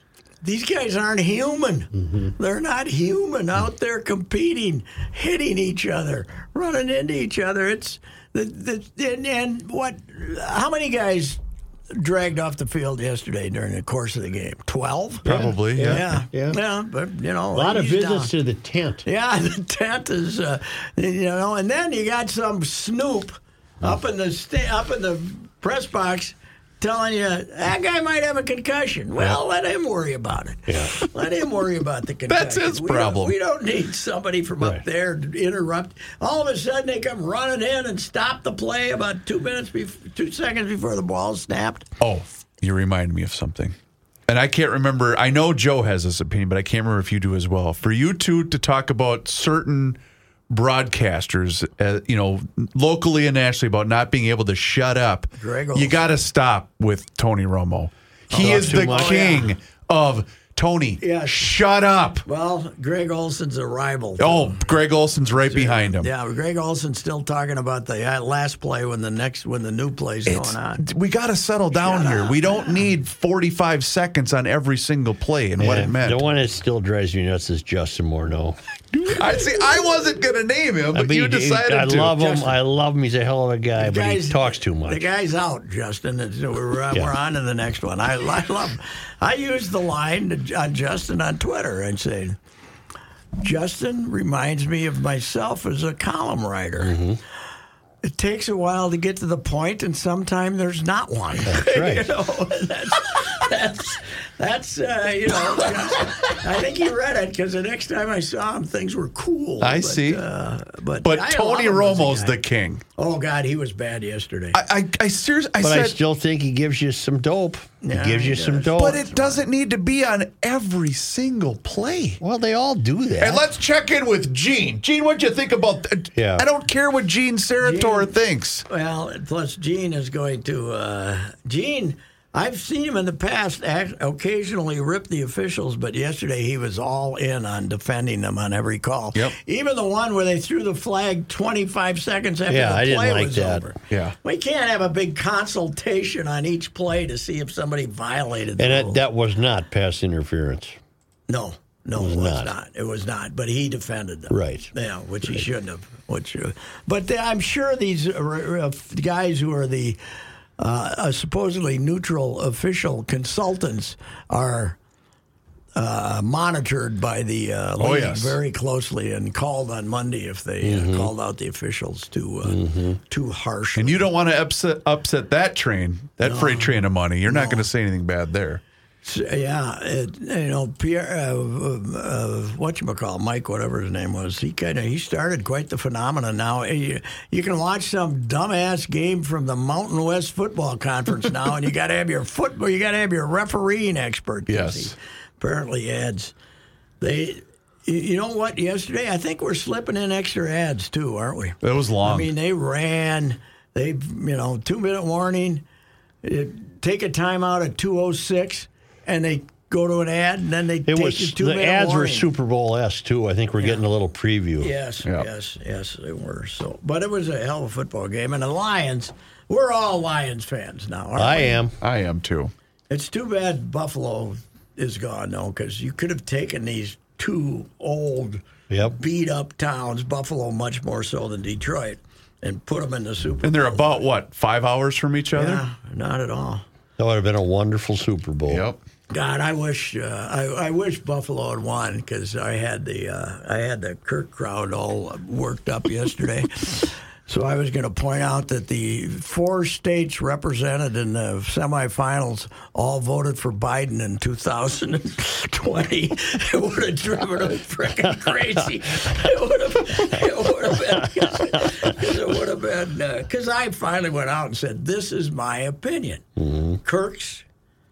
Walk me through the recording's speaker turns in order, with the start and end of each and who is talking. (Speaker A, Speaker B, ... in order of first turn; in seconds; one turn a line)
Speaker A: 0.4-11.4
Speaker A: 11.9-18.3
Speaker B: 15.2-16.6
Speaker C: 15.2-16.0
Speaker B: 17.5-19.0
Speaker A: 19.0-41.9
Speaker B: 30.7-30.9
Speaker C: 32.3-33.3
Speaker C: 42.0-43.7
Speaker C: 44.3-50.0
Speaker C: 50.5-62.2
Speaker A: 55.4-56.0
Speaker A: 58.3-59.5
Speaker B: 58.3-59.4
Speaker A: 61.0-61.5
Speaker A: 62.2-70.8
Speaker C: 64.2-66.1
Speaker C: 70.3-76.2
Speaker A: 71.7-72.8
Speaker B: 75.6-78.6
Speaker C: 78.9-82.2
Speaker B: 80.9-85.1
Speaker A: 82.1-82.5
Speaker A: 83.8-92.4
Speaker A: 93.4-97.0
Speaker B: 96.8-97.2
Speaker A: 98.0-112.4
Speaker B: 101.5-102.1
Speaker C: 109.6-110.2
Speaker C: 111.0-112.8
Speaker A: 113.0-114.6
Speaker C: 114.5-116.0
Speaker B: 115.6-119.0
Speaker A: 117.8-119.4
Speaker C: 118.7-122.2
Speaker B: 122.2-123.4
Speaker C: 123.2-128.6
Speaker B: 126.2-126.5
Speaker A: 127.6-128.1
Speaker A: 128.7-149.0
Speaker B: 142.5-143.7
Speaker C: 143.9-144.2
Speaker B: 148.6-150.8
Speaker A: 151.3-160.0
Speaker B: 151.9-152.5
Speaker B: 154.3-154.7
Speaker A: 160.6-164.8
Speaker A: 165.7-174.1
Speaker C: 167.8-168.4
Speaker B: 170.6-171.1
Speaker B: 172.4-173.0
Speaker C: 173.8-178.6
Speaker A: 176.2-177.7
Speaker A: 179.0-196.3
Speaker C: 194.5-194.9
Speaker A: 197.0-205.6
Speaker C: 201.6-202.3
Speaker A: 206.2-212.3
Speaker B: 210.8-214.7
Speaker A: 214.6-221.7
Speaker B: 221.2-221.8
Speaker C: 221.8-222.5
Speaker A: 222.9-234.0
Speaker B: 228.7-229.0
Speaker C: 233.4-235.6
Speaker A: 235.3-236.6
Speaker B: 237.0-238.6
Speaker C: 238.5-238.8
Speaker A: 239.1-266.2
Speaker B: 261.3-261.7
Speaker B: 266.4-266.8
Speaker A: 266.8-267.4